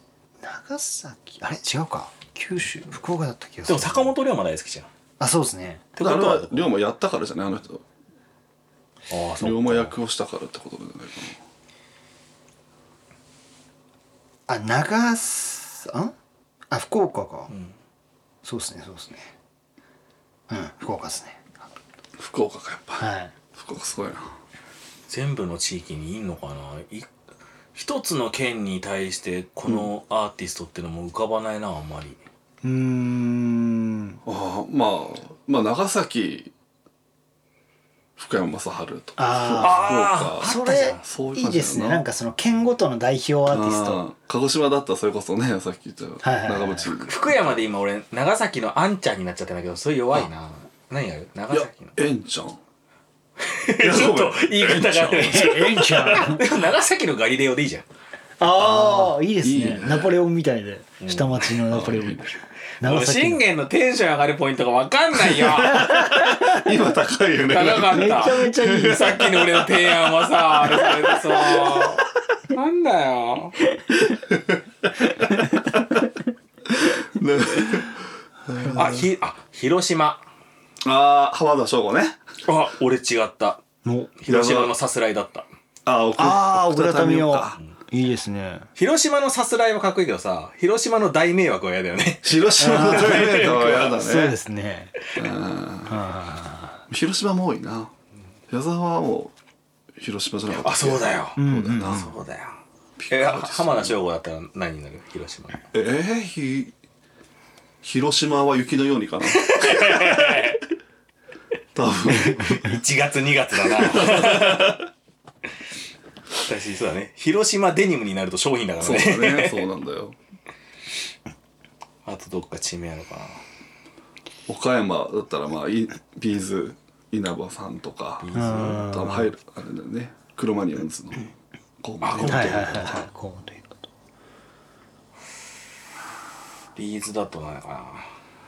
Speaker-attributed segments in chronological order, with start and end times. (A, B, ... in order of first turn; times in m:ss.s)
0:00.4-0:04.1 A
0:03.6-0:04.9 B
0:05.2-0:05.9 A
0:06.0-0:06.7 B
0:06.0-0:07.8 C
0:09.1-0:10.0 B
0:09.4-0:11.4 C
0:14.5-0:16.1 A
0:16.7-0:17.5 A
0:17.5-0:17.8 B
0:18.4-0:19.3 A
0:20.5-0:21.6 A
0:22.2-0:24.3 C
0:23.0-0:23.3 A
0:25.1-0:27.1 B
0:27.8-0:32.2 B
0:32.6-0:34.2 A
0:34.3-0:36.5 C
0:38.2-0:42.0 C
0:39.2-0:44.0 A
0:39.6-0:41.0 B
0:43.5-0:47.6 C
0:46.2-0:46.9 A
0:47.0-0:52.0 B
0:51.5-0:52.6 C
0:53.4-0:57.9 B
0:53.8-0:56.1 C
0:55.2-0:56.4 A
0:58.4-1:03.4 A
0:58.6-1:00.2 C
1:01.0-1:01.6 B
1:01.7-1:02.3 C
1:02.8-1:06.1 B
1:05.3-1:09.6 C
1:05.8-1:06.7 A
1:07.5-1:13.6 B
1:07.8-1:09.3 A
1:10.7-1:11.9 C
1:14.1-1:16.0 C
1:16.7-1:19.1 C
1:18.6-1:20.2 B
1:20.8-1:22.2 C
1:22.5-1:23.6 B
1:23.8-1:24.1 A
1:24.2-1:25.5 B
1:24.3-1:24.7 C
1:25.9-1:27.6 C
1:26.2-1:28.7 A
1:28.8-1:34.0 B
1:32.2-1:34.4 C
1:32.6-1:34.9 A
1:35.1-1:36.0 C
1:35.9-1:36.8 A
1:36.9-1:37.9 C
1:38.5-1:39.3 C
1:40.0-1:42.2 C
1:40.5-1:42.6 B
1:41.4-1:42.1 A
1:43.0-1:44.0 C
1:43.1-1:45.7 B
1:45.7-1:46.7 C
1:47.8-1:50.5 C
1:49.3-1:50.6 B
1:51.8-1:52.8 C
1:52.0-1:54.8 B
1:53.6-1:54.9 C
1:56.4-1:59.6 B
1:58.8-2:00.2 C
2:02.1-2:03.4 B
2:04.5-2:11.3 C
2:08.2-2:08.9 B
2:08.3-2:09.3 A
2:11.8-2:13.1 C
2:12.0-2:13.1 B
2:12.2-2:13.9 A
2:16.8-2:18.1 B